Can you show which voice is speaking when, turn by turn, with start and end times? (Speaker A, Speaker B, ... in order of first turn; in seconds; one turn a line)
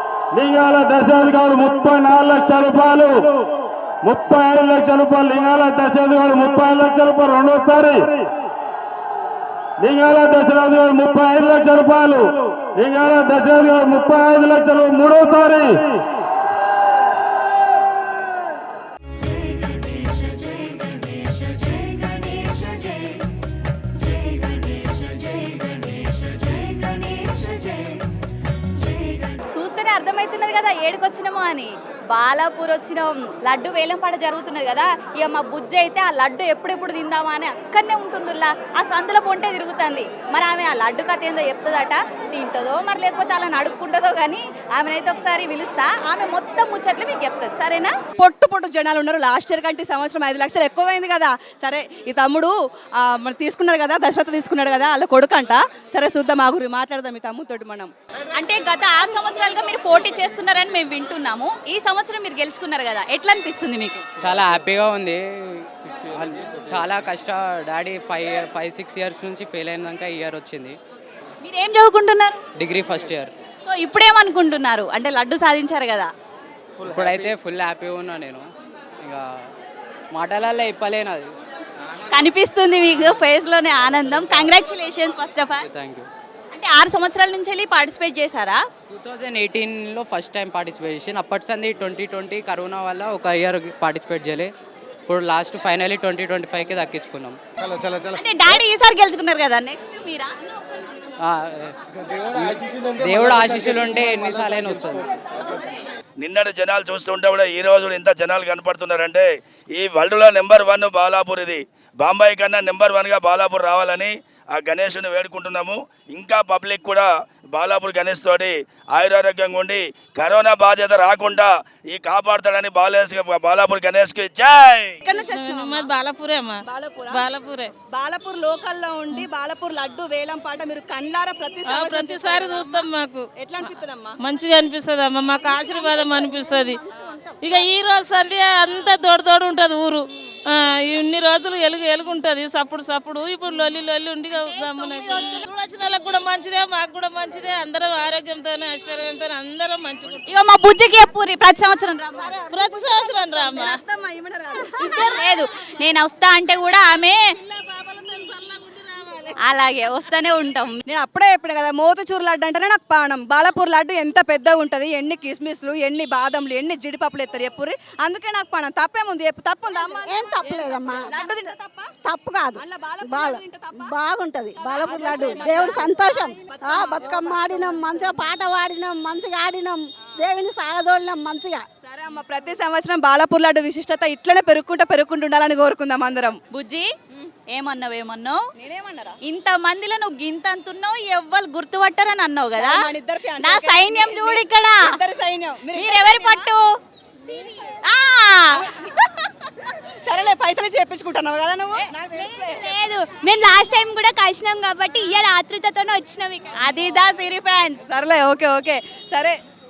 Speaker A: 0.3-3.3
Speaker A: 4.0-8.2
Speaker A: 9.8-15.8
Speaker B: 29.5-47.9
Speaker C: 48.2-57.9
Speaker B: 58.3-64.0
Speaker D: 64.2-70.8
Speaker B: 71.4-72.4
Speaker D: 72.6-73.3
Speaker B: 73.6-76.1
Speaker D: 76.8-78.5
Speaker D: 80.1-81.3
Speaker B: 82.1-85.6
Speaker D: 84.2-84.5
Speaker D: 85.6-86.1
Speaker B: 86.5-88.6
Speaker D: 88.9-94.5
Speaker D: 95.0-97.4
Speaker B: 98.1-100.3
Speaker D: 101.2-101.7
Speaker D: 102.4-105.1
Speaker E: 106.2-125.0
Speaker C: 125.0-125.9
Speaker F: 125.1-126.6
Speaker C: 126.6-127.3
Speaker F: 127.1-127.7
Speaker C: 127.9-134.2
Speaker F: 131.7-133.3
Speaker F: 134.2-136.8
Speaker G: 135.6-137.5
Speaker F: 137.4-150.3
Speaker B: 150.3-152.3
Speaker C: 152.2-155.6
Speaker F: 152.4-153.7
Speaker B: 154.8-157.2
Speaker F: 154.8-155.3
Speaker C: 157.3-159.3
Speaker B: 159.4-160.8
Speaker C: 160.9-171.9
Speaker G: 169.8-171.1
Speaker G: 172.0-181.6
Speaker C: 172.6-173.9
Speaker C: 174.5-177.7
Speaker C: 181.8-186.4
Speaker B: 186.5-186.9
Speaker B: 187.5-188.4
Speaker C: 188.6-189.2
Speaker B: 189.2-192.8
Speaker C: 192.6-196.5
Speaker B: 193.4-194.9
Speaker B: 195.7-196.6
Speaker B: 197.8-198.6
Speaker C: 198.6-198.9
Speaker C: 200.0-202.8
Speaker H: 202.2-206.5
Speaker B: 206.5-207.8
Speaker C: 207.9-209.3